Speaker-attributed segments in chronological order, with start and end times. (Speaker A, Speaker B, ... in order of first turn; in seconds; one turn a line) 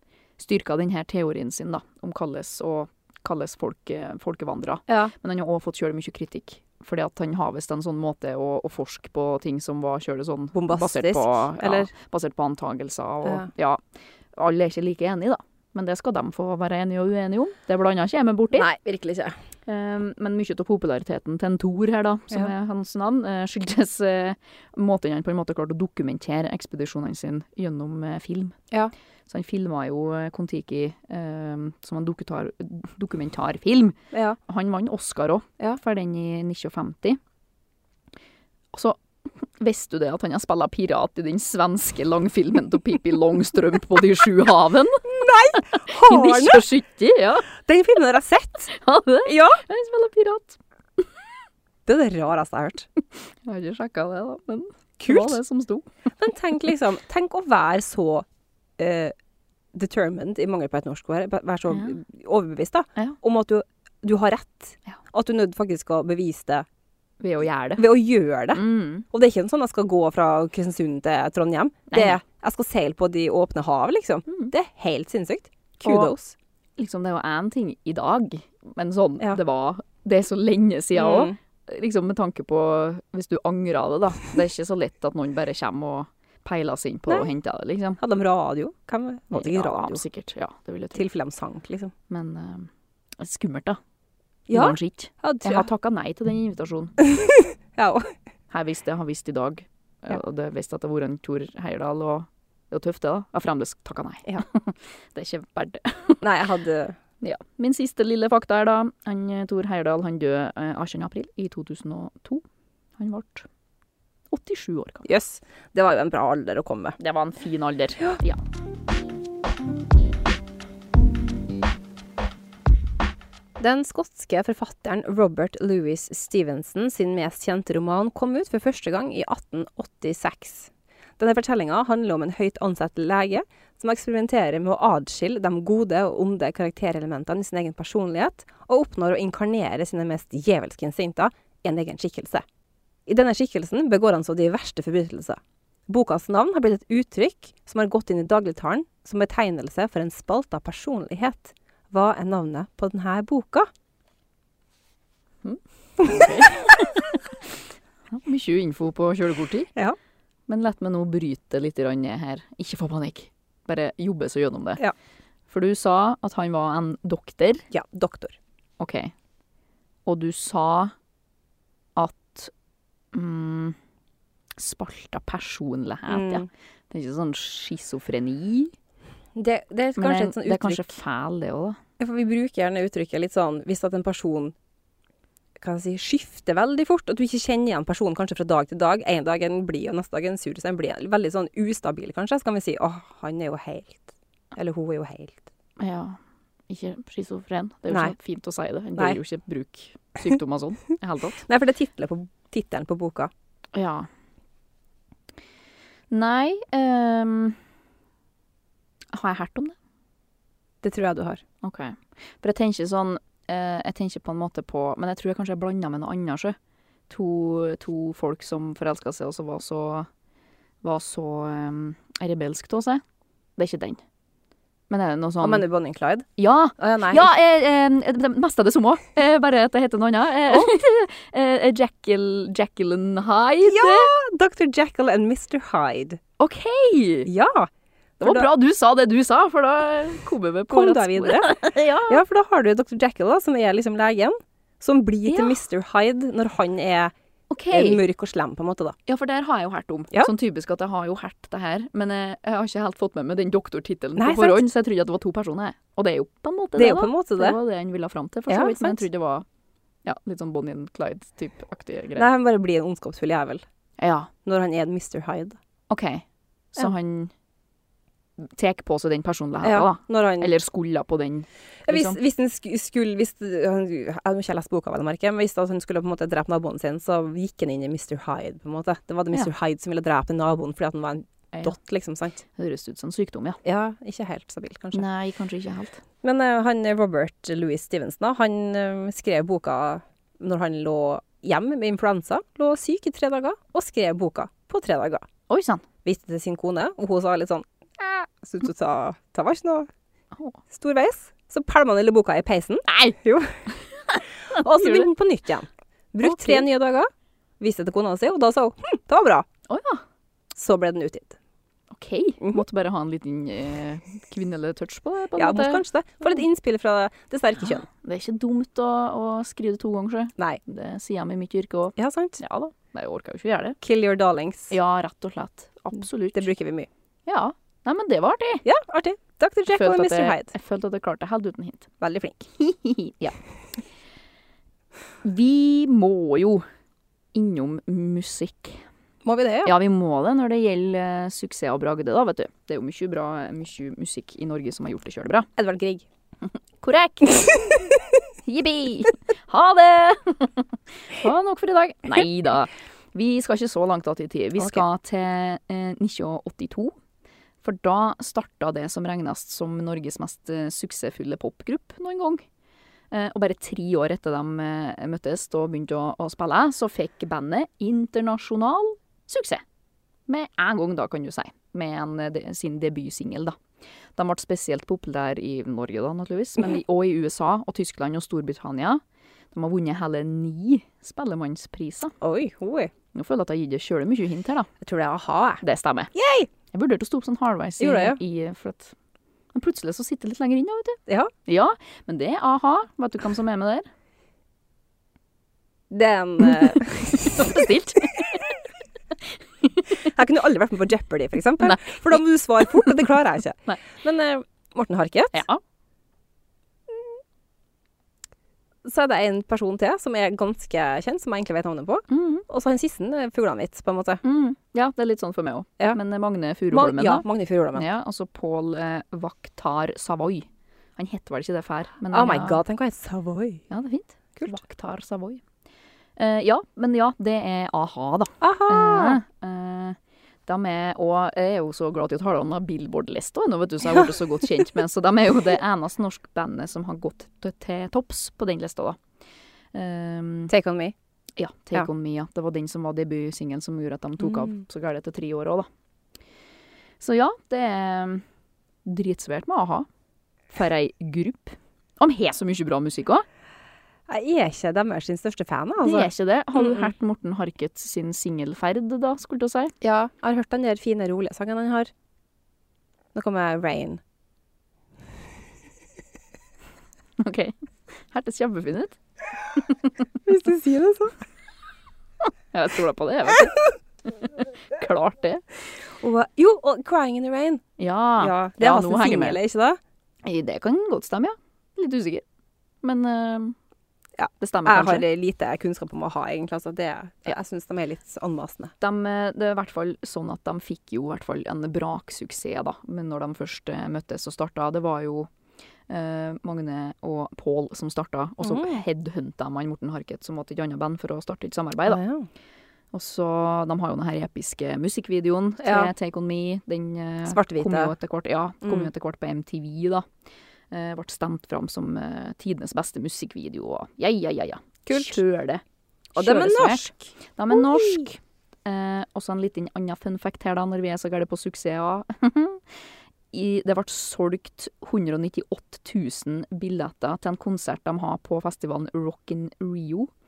Speaker A: 0.4-13.8
Speaker B: 4.9-5.1
Speaker B: 10.5-11.9
Speaker A: 14.3-18.7
Speaker B: 18.5-19.4
Speaker A: 19.7-28.6
Speaker A: 29.3-37.2
Speaker B: 34.1-34.4
Speaker A: 38.7-47.5
Speaker B: 45.0-46.6
Speaker B: 47.6-48.7
Speaker A: 48.7-51.1
Speaker B: 49.3-49.6
Speaker B: 51.9-52.9
Speaker A: 53.5-55.9
Speaker B: 55.0-55.4
Speaker B: 56.2-58.3
Speaker B: 58.8-59.1
Speaker B: 59.7-66.7
Speaker A: 67.2-67.8
Speaker B: 67.8-76.4
Speaker A: 68.5-69.0
Speaker A: 71.9-72.2
Speaker A: 74.3-74.5
Speaker A: 75.8-76.1
Speaker A: 76.8-88.0
Speaker B: 81.0-81.4
Speaker B: 88.0-90.0
Speaker A: 89.3-91.1
Speaker B: 91.0-91.9
Speaker A: 92.1-93.8
Speaker B: 94.5-95.7
Speaker A: 94.5-97.0
Speaker B: 97.0-98.1
Speaker A: 98.5-106.2
Speaker B: 106.2-107.0
Speaker A: 107.2-112.4
Speaker A: 113.0-113.5
Speaker A: 114.3-115.0
Speaker B: 115.0-117.0
Speaker A: 117.0-118.4
Speaker B: 123.6-142.4
Speaker B: 143.1-153.7
Speaker A: 155.4-157.2
Speaker A: 158.1-159.7
Speaker A: 160.5-164.8
Speaker A: 165.5-167.7
Speaker B: 167.7-168.4
Speaker A: 168.8-169.1
Speaker A: 170.1-170.9
Speaker A: 172.0-172.5
Speaker A: 173.1-173.8
Speaker A: 174.6-178.7
Speaker B: 176.1-176.5
Speaker B: 179.3-180.9
Speaker A: 180.0-181.8
Speaker B: 182.0-184.5
Speaker B: 185.6-195.5
Speaker A: 195.8-196.2
Speaker A: 196.7-201.4
Speaker B: 197.9-198.2
Speaker B: 201.4-203.3
Speaker A: 203.7-204.1
Speaker A: 206.1-207.6
Speaker A: 209.1-209.8
Speaker B: 210.8-211.4
Speaker A: 211.6-216.6
Speaker A: 217.1-220.1
Speaker A: 220.8-223.0
Speaker A: 223.6-224.0
Speaker A: 224.9-225.7
Speaker B: 225.4-227.3
Speaker A: 226.4-234.1
Speaker B: 233.7-236.2
Speaker A: 236.4-237.3
Speaker B: 237.3-238.5
Speaker A: 238.2-242.2
Speaker B: 240.7-247.1
Speaker A: 245.3-245.6
Speaker A: 247.5-248.0
Speaker B: 247.7-249.0
Speaker A: 249.1-259.5
Speaker B: 254.2-254.6
Speaker B: 256.8-257.6
Speaker B: 258.5-259.1
Speaker A: 260.1-262.3
Speaker B: 262.2-263.6
Speaker A: 264.0-264.3
Speaker B: 264.4-265.6
Speaker A: 265.9-267.3
Speaker A: 268.4-272.2
Speaker B: 269.6-270.5
Speaker B: 271.9-282.4
Speaker A: 282.6-283.6
Speaker B: 283.6-285.1
Speaker A: 284.9-286.0
Speaker B: 286.2-295.3
Speaker A: 295.5-295.8
Speaker B: 296.1-299.9
Speaker B: 300.7-303.6
Speaker A: 302.9-305.1
Speaker B: 304.5-307.1
Speaker A: 306.2-306.6
Speaker B: 307.6-309.5
Speaker A: 309.7-310.0
Speaker B: 310.5-311.4
Speaker A: 311.9-316.4
Speaker B: 315.4-317.9
Speaker A: 317.9-323.8
Speaker B: 322.0-322.4
Speaker B: 323.8-324.8
Speaker A: 324.7-326.5
Speaker B: 326.3-326.9
Speaker A: 327.3-328.6
Speaker B: 328.6-330.5
Speaker A: 329.7-331.9
Speaker B: 332.0-332.5
Speaker A: 332.6-333.4
Speaker A: 335.2-336.7
Speaker A: 337.3-338.9
Speaker B: 339.2-339.8
Speaker A: 339.6-345.5
Speaker B: 345.6-346.1
Speaker A: 346.8-347.7
Speaker A: 348.4-356.9
Speaker B: 354.6-354.9
Speaker A: 357.6-362.4
Speaker A: 363.1-369.6
Speaker A: 370.3-373.6
Speaker A: 374.2-382.1
Speaker B: 382.2-382.9
Speaker A: 383.1-384.7
Speaker B: 384.8-385.6
Speaker A: 385.6-386.1
Speaker B: 386.1-386.5
Speaker A: 386.7-388.9
Speaker B: 387.8-388.2
Speaker A: 389.5-393.9
Speaker B: 391.1-391.3
Speaker B: 395.9-397.5
Speaker A: 396.6-398.6
Speaker A: 399.6-400.1
Speaker B: 399.9-405.4
Speaker A: 401.6-403.0
Speaker A: 405.3-405.6
Speaker B: 408.8-414.2
Speaker A: 412.1-412.4
Speaker A: 414.2-422.6
Speaker B: 416.7-417.9
Speaker B: 422.1-423.6
Speaker A: 423.7-425.4
Speaker A: 426.2-439.0
Speaker B: 428.4-429.2
Speaker A: 439.7-440.5
Speaker B: 440.5-440.9
Speaker A: 441.4-445.7
Speaker B: 444.2-444.6
Speaker A: 447.0-448.2
Speaker A: 448.9-449.9
Speaker A: 450.5-453.2
Speaker B: 454.1-456.9
Speaker A: 455.8-459.7
Speaker B: 459.8-461.9
Speaker B: 463.1-464.0
Speaker A: 467.2-469.0
Speaker A: 469.6-469.9
Speaker B: 470.2-471.2
Speaker A: 472.5-473.6
Speaker A: 474.1-475.4
Speaker B: 476.0-477.6
Speaker A: 477.8-479.4
Speaker B: 478.2-479.8
Speaker A: 480.2-482.2
Speaker A: 482.8-483.6
Speaker B: 484.2-488.7
Speaker A: 484.4-485.1
Speaker A: 488.8-495.3
Speaker A: 495.9-502.0
Speaker B: 498.4-498.8
Speaker B: 501.9-502.3
Speaker A: 502.9-510.1
Speaker B: 505.6-505.9
Speaker B: 507.3-507.9
Speaker B: 508.6-508.9
Speaker A: 510.7-515.6
Speaker B: 514.9-515.2
Speaker A: 516.1-522.6
Speaker B: 516.2-518.1
Speaker A: 523.3-530.1